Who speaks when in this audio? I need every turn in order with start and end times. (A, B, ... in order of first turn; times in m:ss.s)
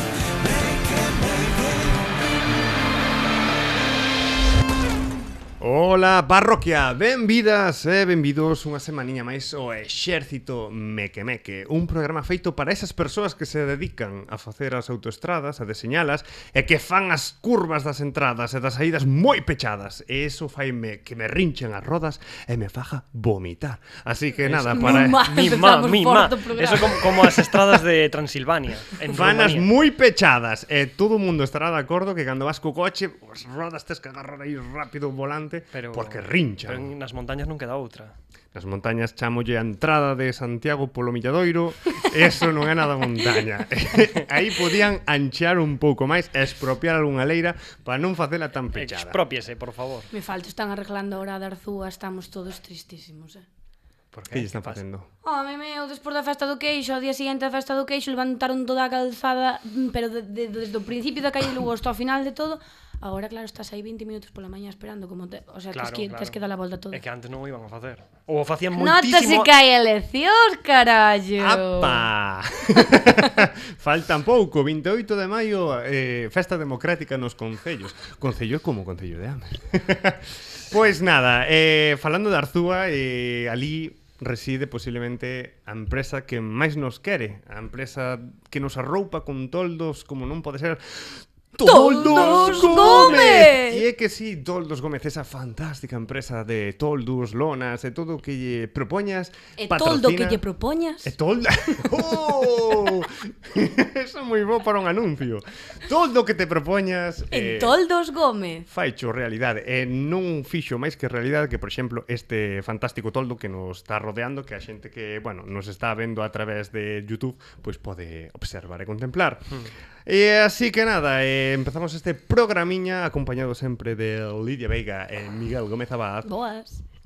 0:05.6-0:25.3 A
0:24.4-0:29.7 B
0:24.7-0:27.6 C
0:29.0-0:36.9 A
0:35.7-0:38.2 B
0:38.5-0:49.2 A
0:48.8-0:50.1 B
0:50.1-0:53.5 C
0:54.1-0:54.8 B
0:54.3-0:55.1 A
0:55.2-1:07.0 C
1:05.7-1:06.4 B
1:06.9-1:09.5 B
1:08.7-1:12.1 C
1:11.4-1:40.4 A
1:31.6-1:33.8 C
1:32.1-1:33.3 B
1:39.6-1:41.1 C
1:41.0-1:47.8 A
1:47.3-1:48.7 C
1:48.7-2:06.3 A
2:06.2-2:06.8 C